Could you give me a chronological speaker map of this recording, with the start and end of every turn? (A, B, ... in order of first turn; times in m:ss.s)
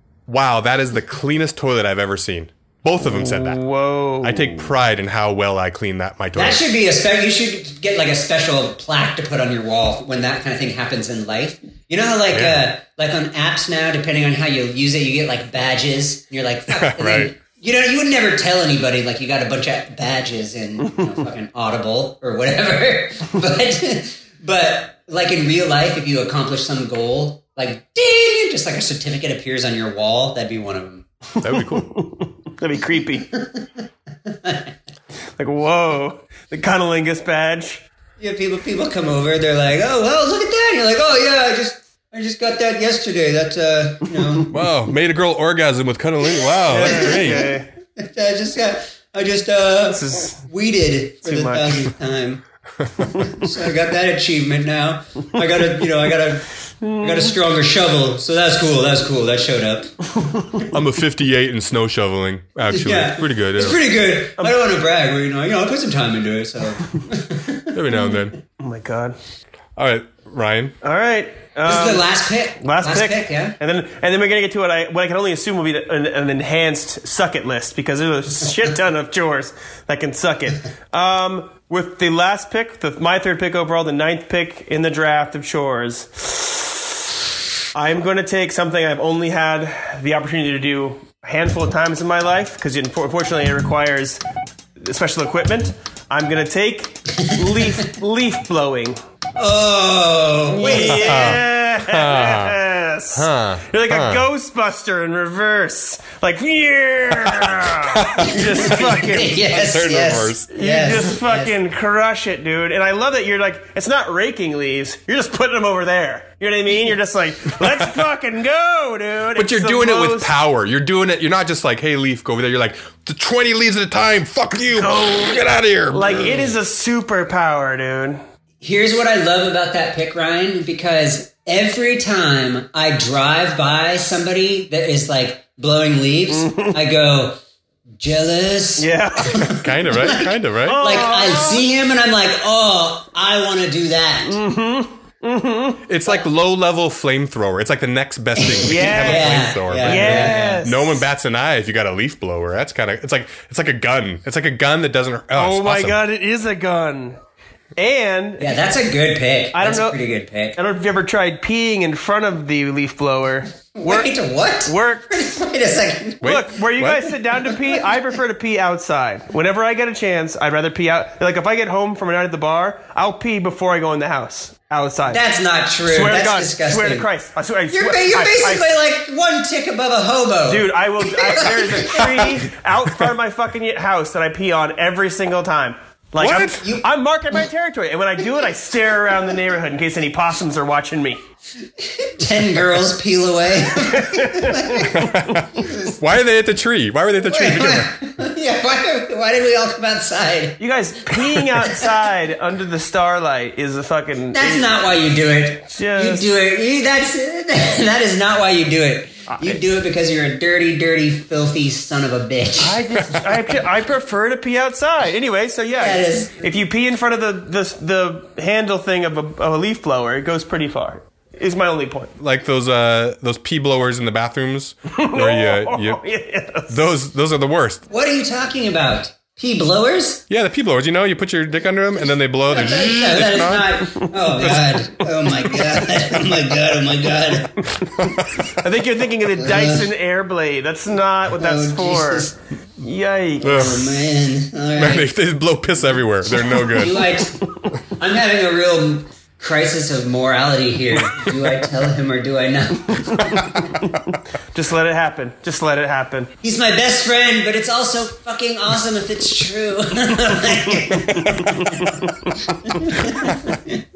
0:00.3-0:03.6 A
0:03.0-0:04.7 B
0:04.2-0:06.6 A
0:06.4-0:31.1 C
0:12.3-0:12.7 A
0:16.7-0:17.3 A
0:31.4-0:32.0 A
0:31.4-0:33.3 B
0:33.3-0:33.7 C
0:34.3-0:34.7 C
0:35.4-0:37.8 B
0:38.2-0:44.5 C
0:44.5-0:47.5 A
0:46.6-0:47.7 B
0:46.8-0:52.4 C
0:49.9-0:50.4 B
0:51.2-0:51.9 B
0:53.0-0:59.9 C
0:56.8-0:57.3 B
1:00.7-1:03.8 A
1:02.7-1:07.8 C
1:07.7-1:08.4 A
1:08.6-1:09.2 B
1:09.8-1:10.8 A
1:10.8-1:12.1 B
1:11.7-1:13.6 C
1:12.6-1:27.0 B
1:27.7-1:34.2 B
1:34.8-1:39.0 B
1:39.4-1:41.4 C
1:40.5-1:49.4 B
1:40.7-1:42.6 A
1:43.1-1:44.3 A
1:47.3-1:50.5 A
1:48.2-1:51.5 C
1:50.5-2:00.3 B
1:59.4-2:06.5 A
2:04.8-2:08.2 B
2:08.6-2:17.4 C
2:16.3-2:16.8 B
2:18.0-2:24.4 C
2:18.8-2:19.5 B
2:19.5-2:20.9 A
2:20.7-2:21.7 B
2:24.3-2:25.8 B
2:25.9-2:36.0 A
2:28.4-2:30.7 C
2:28.6-2:31.0 B
2:35.3-2:37.2 B
2:37.8-2:38.5 B
2:38.4-2:40.6 C
2:39.5-2:40.0 B
2:40.6-2:44.1 B
2:43.8-2:46.4 C
2:44.6-2:45.2 B
2:46.2-2:47.1 A
2:46.2-2:55.2 B
2:55.1-2:57.1 C
2:55.9-2:58.7 B
2:57.7-3:02.3 C
3:00.5-3:11.2 B
3:06.2-3:06.7 A
3:06.4-3:06.9 C
3:11.8-3:16.0 C
3:13.8-3:15.0 B
3:14.9-3:17.9 A
3:17.2-3:20.6 C
3:20.6-3:24.7 B
3:21.6-3:21.9 C
3:24.3-3:32.9 C
3:25.7-3:26.3 B
3:29.3-3:29.6 B
3:32.6-3:42.1 B
3:35.8-3:36.5 C
3:42.2-3:46.0 A
3:45.0-3:46.8 B
3:46.7-3:47.8 A
3:47.9-3:50.2 C
3:50.3-3:53.8 A
3:52.5-3:57.6 C
3:54.3-3:54.8 A
3:57.8-3:58.7 A
3:58.5-4:03.8 B
3:59.4-3:59.9 C
4:01.4-4:02.3 C
4:03.4-4:03.9 A
4:03.4-4:05.1 C
4:04.8-4:07.0 A
4:06.7-4:07.4 C
4:07.4-4:07.7 B
4:07.9-4:13.7 C
4:14.5-4:16.3 B
4:16.4-4:23.8 C
4:21.5-4:21.9 B